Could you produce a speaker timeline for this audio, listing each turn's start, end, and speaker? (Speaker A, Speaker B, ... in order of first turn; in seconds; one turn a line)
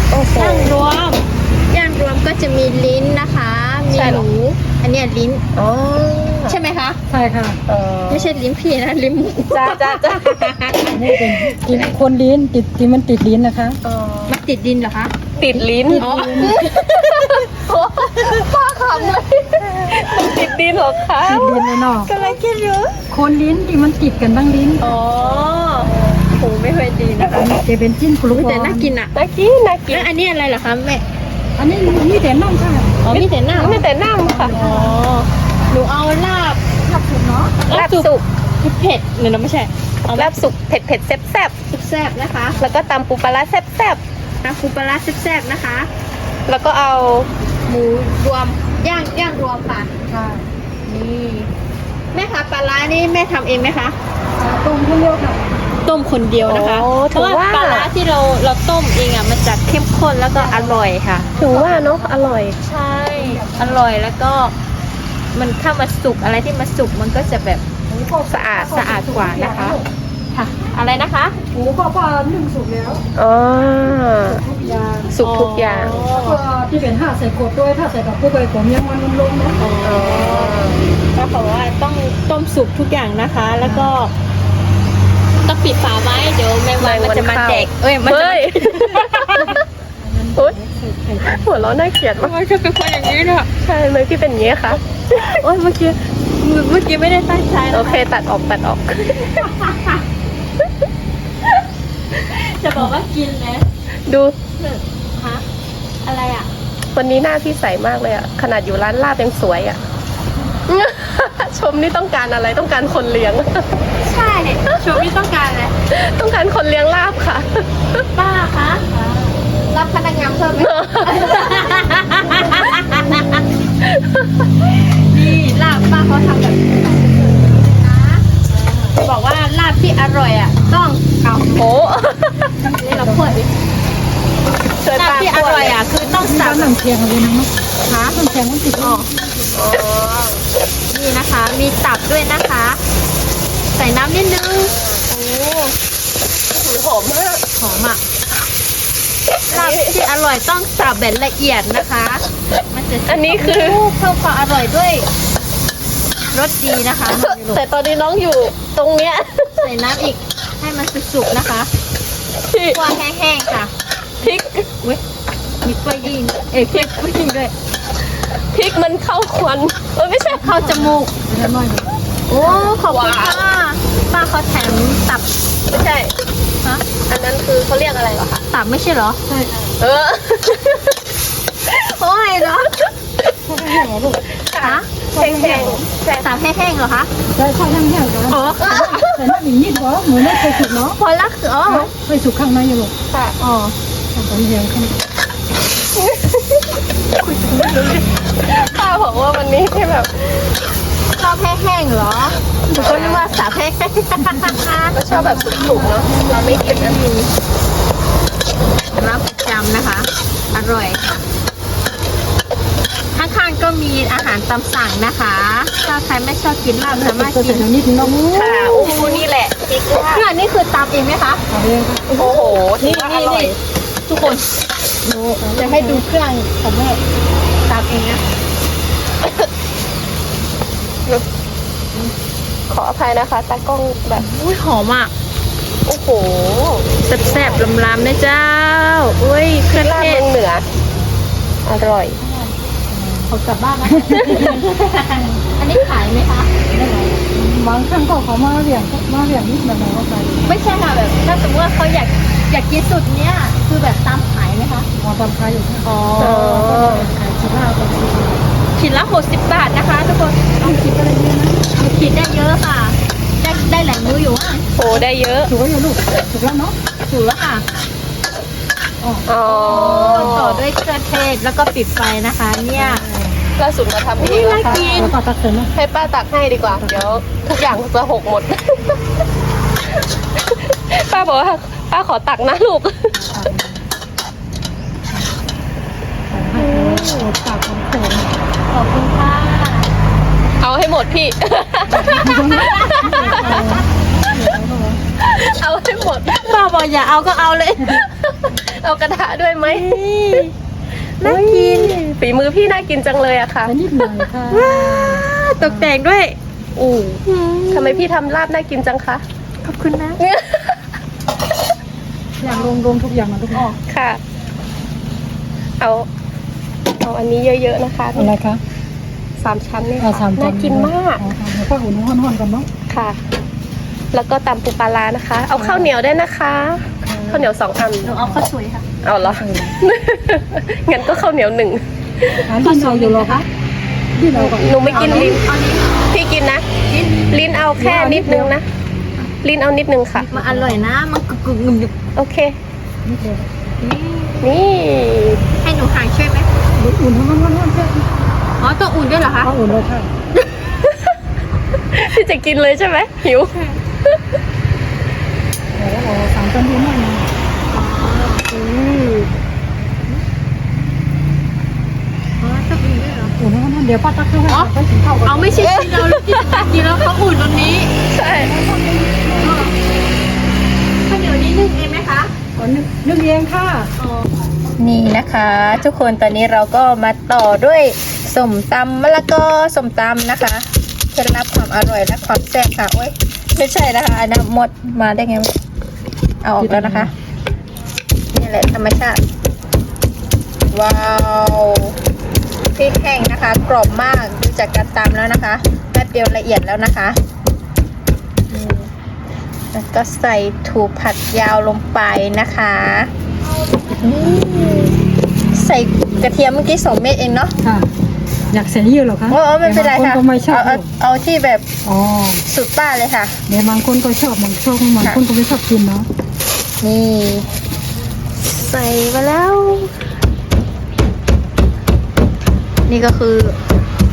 Speaker A: 0.1-0.8
Speaker B: 0.3-5.4
Speaker A: 3.9-4.3
Speaker A: 5.6-6.6
Speaker B: 6.5-7.0
Speaker C: 7.1-7.6
Speaker A: 7.7-8.4
Speaker B: 8.1-11.6
Speaker A: 9.5-10.6
Speaker C: 10.8-13.8
Speaker A: 13.8-14.4
Speaker B: 14.3-15.2
Speaker A: 15.4-21.6
Speaker C: 15.9-16.6
Speaker B: 15.9-17.5
Speaker B: 18.1-18.5
Speaker B: 19.6-20.3
Speaker C: 21.2-22.1
Speaker B: 22.0-23.0
Speaker C: 23.1-25.0
Speaker B: 24.8-27.6
Speaker A: 25.2-26.2
Speaker C: 27.3-28.9
Speaker B: 28.3-29.1
Speaker A: 29.1-30.1
Speaker B: 29.9-31.0
Speaker C: 31.6-33.0
Speaker B: 33.0-33.9
Speaker A: 33.1-34.6
Speaker C: 34.2-35.0
Speaker B: 34.5-37.0
Speaker C: 37.0-37.5
Speaker B: 37.5-40.4
Speaker A: 37.7-38.2
Speaker A: 40.1-41.6
Speaker B: 41.7-42.8
Speaker A: 42.6-44.0
Speaker B: 44.4-45.9
Speaker A: 46.5-47.3
Speaker B: 47.7-49.9
Speaker C: 50.1-50.5
Speaker B: 50.9-51.5
Speaker B: 52.1-54.0
Speaker C: 54.4-55.6
Speaker B: 55.9-61.3
Speaker A: 56.5-57.9
Speaker C: 60.4-60.8
Speaker C: 61.4-62.4
Speaker A: 61.4-62.6
Speaker B: 62.6-64.5
Speaker C: 63.1-63.8
Speaker B: 65.3-67.6
Speaker C: 67.9-69.9
Speaker A: 68.3-68.9
Speaker B: 68.7-69.8
Speaker B: 70.3-71.4
Speaker C: 71.5-73.1
Speaker A: 73.2-74.4
Speaker C: 74.2-75.2
Speaker A: 75.1-76.0
Speaker B: 75.2-76.4
Speaker C: 76.1-79.6
Speaker B: 79.6-84.1
Speaker A: 79.8-80.9
Speaker C: 83.6-83.9
Speaker B: 85.5-89.6
Speaker A: 86.8-89.6
Speaker C: 89.4-91.7
Speaker A: 91.3-92.3
Speaker B: 92.2-93.5
Speaker A: 93.6-95.4
Speaker B: 95.1-98.0
Speaker A: 97.7-99.3
Speaker B: 99.1-100.0
Speaker B: 102.1-103.7
Speaker A: 104.1-104.3
Speaker B: 104.6-105.5
Speaker B: 106.0-106.5
Speaker A: 106.9-109.8
Speaker A: 110.7-113.7
Speaker B: 114.0-115.8
Speaker A: 114.7-115.0
Speaker A: 115.9-118.1
Speaker B: 118.1-123.6
Speaker A: 120.6-121.7
Speaker A: 123.8-124.5
Speaker B: 124.6-131.7
Speaker A: 131.5-132.5
Speaker C: 132.6-133.4
Speaker B: 132.7-133.5
Speaker A: 134.8-135.8
Speaker B: 134.9-136.7
Speaker C: 136.0-139.7
Speaker B: 137.9-138.2
Speaker B: 138.8-139.1
Speaker A: 139.5-140.4
Speaker B: 140.9-142.8
Speaker B: 143.7-144.7
Speaker A: 144.5-145.7
Speaker A: 146.5-147.4
Speaker B: 147.6-148.0
Speaker A: 149.5-149.9
Speaker B: 149.5-155.1
Speaker A: 153.1-153.8
Speaker B: 156.3-157.6
Speaker A: 157.1-159.7
Speaker B: 159.6-161.7
Speaker A: 162.5-162.9
Speaker B: 162.7-163.7
Speaker A: 164.2-164.7
Speaker B: 165.6-167.5
Speaker A: 168.4-170.4
Speaker B: 170.3-171.1
Speaker C: 170.3-171.9
Speaker B: 172.3-175.3
Speaker A: 172.4-173.4
Speaker A: 175.7-176.1
Speaker A: 177.1-178.4
Speaker B: 178.5-179.2
Speaker C: 179.3-179.8
Speaker A: 179.8-181.0
Speaker B: 181.7-182.7
Speaker C: 183.4-184.3
Speaker A: 184.3-186.3
Speaker B: 184.6-184.9
Speaker C: 185.1-185.9
Speaker B: 186.2-187.1
Speaker C: 187.3-191.0
Speaker B: 188.3-189.3
Speaker B: 190.2-191.9
Speaker C: 191.7-192.9
Speaker A: 193.1-193.4
Speaker B: 193.4-193.8
Speaker C: 194.1-195.0
Speaker A: 195.9-196.8
Speaker B: 197.2-198.1
Speaker A: 198.4-200.6
Speaker B: 201.1-205.2
Speaker A: 202.7-203.4
Speaker A: 204.9-207.0
Speaker C: 205.1-206.6
Speaker B: 206.3-207.3
Speaker B: 208.9-211.0
Speaker B: 213.1-219.3
Speaker C: 216.9-218.2
Speaker A: 218.3-220.3
Speaker B: 219.9-221.4
Speaker C: 221.5-222.1
Speaker B: 222.1-223.6
Speaker A: 222.1-223.6
Speaker B: 224.1-224.5
Speaker B: 225.0-227.0
Speaker C: 225.4-226.1
Speaker B: 227.7-228.2
Speaker A: 232.7-234.3
Speaker B: 234.2-235.1
Speaker A: 235.9-237.7
Speaker B: 237.1-240.3
Speaker A: 239.7-240.6
Speaker A: 241.7-242.2
Speaker B: 242.3-242.5
Speaker C: 242.9-243.3
Speaker B: 243.3-246.7
Speaker C: 243.9-244.6
Speaker C: 245.2-245.4
Speaker C: 246.7-250.4
Speaker B: 250.4-254.9
Speaker C: 255.0-258.4
Speaker B: 255.8-256.8
Speaker A: 256.2-257.1
Speaker B: 258.8-260.9
Speaker C: 260.6-261.7
Speaker B: 261.7-265.1
Speaker A: 264.8-265.5
Speaker C: 265.5-266.8
Speaker B: 267.1-267.6
Speaker A: 269.3-270.6
Speaker B: 269.4-273.0
Speaker C: 272.7-273.4
Speaker A: 273.6-275.1
Speaker B: 274.2-275.1
Speaker C: 274.5-275.7
Speaker A: 275.8-279.0
Speaker C: 276.7-277.2
Speaker A: 280.4-283.1
Speaker C: 283.1-283.8
Speaker C: 286.3-288.3
Speaker A: 286.6-287.0
Speaker B: 286.9-287.2
Speaker B: 288.7-289.9
Speaker A: 290.6-293.6
Speaker C: 291.9-295.0
Speaker B: 292.0-293.8
Speaker A: 295.2-296.6
Speaker B: 296.3-298.1
Speaker A: 298.1-300.4
Speaker B: 299.6-300.5
Speaker B: 301.2-302.2
Speaker C: 301.2-301.8
Speaker A: 301.6-303.8
Speaker C: 303.7-305.9
Speaker B: 304.0-306.4
Speaker A: 306.8-309.2
Speaker B: 307.3-308.1
Speaker B: 309.6-310.2
Speaker A: 310.2-310.9
Speaker C: 312.4-313.7
Speaker B: 313.5-313.8
Speaker A: 313.9-314.2
Speaker A: 315.8-316.1
Speaker A: 317.0-318.3
Speaker C: 318.1-318.6
Speaker A: 319.4-321.2
Speaker C: 320.0-322.7
Speaker A: 322.9-323.2
Speaker A: 324.1-328.2
Speaker C: 325.6-325.9
Speaker C: 327.0-327.5
Speaker B: 328.0-328.9
Speaker C: 328.2-328.4
Speaker A: 329.0-332.5
Speaker C: 329.2-329.8
Speaker C: 332.4-333.4
Speaker B: 332.6-333.4
Speaker C: 334.2-335.3
Speaker B: 334.3-336.1
Speaker A: 334.5-335.4
Speaker A: 336.1-336.6
Speaker B: 336.9-337.2
Speaker A: 337.3-338.6
Speaker C: 337.8-338.5
Speaker A: 339.4-340.3
Speaker C: 340.1-340.9
Speaker B: 340.3-342.0
Speaker A: 342.2-342.6
Speaker C: 343.1-343.5
Speaker B: 343.8-344.5
Speaker A: 344.4-345.4
Speaker B: 345.6-346.5
Speaker C: 346.8-348.1
Speaker B: 348.6-349.5
Speaker C: 349.4-350.1
Speaker A: 351.9-354.2
Speaker C: 355.8-357.3
Speaker B: 357.7-358.5
Speaker A: 358.5-359.3
Speaker B: 362.4-363.3
Speaker C: 363.4-366.2
Speaker B: 365.2-367.9
Speaker A: 368.1-368.5
Speaker C: 368.2-369.7
Speaker B: 369.4-369.7
Speaker B: 371.1-372.3
Speaker C: 372.6-373.9
Speaker B: 374.0-385.5
Speaker B: 386.4-387.1
Speaker C: 386.6-387.1
Speaker B: 388.3-389.2
Speaker B: 390.7-392.0
Speaker B: 392.8-397.2
Speaker B: 398.5-398.9
Speaker B: 399.7-403.1
Speaker B: 404.0-405.0
Speaker B: 405.5-407.6
Speaker C: 407.6-407.9
Speaker C: 408.5-410.9
Speaker B: 409.3-411.7
Speaker C: 411.8-412.4
Speaker B: 412.4-413.4
Speaker C: 413.5-416.1
Speaker B: 416.8-417.5
Speaker B: 418.4-419.9
Speaker B: 422.9-423.6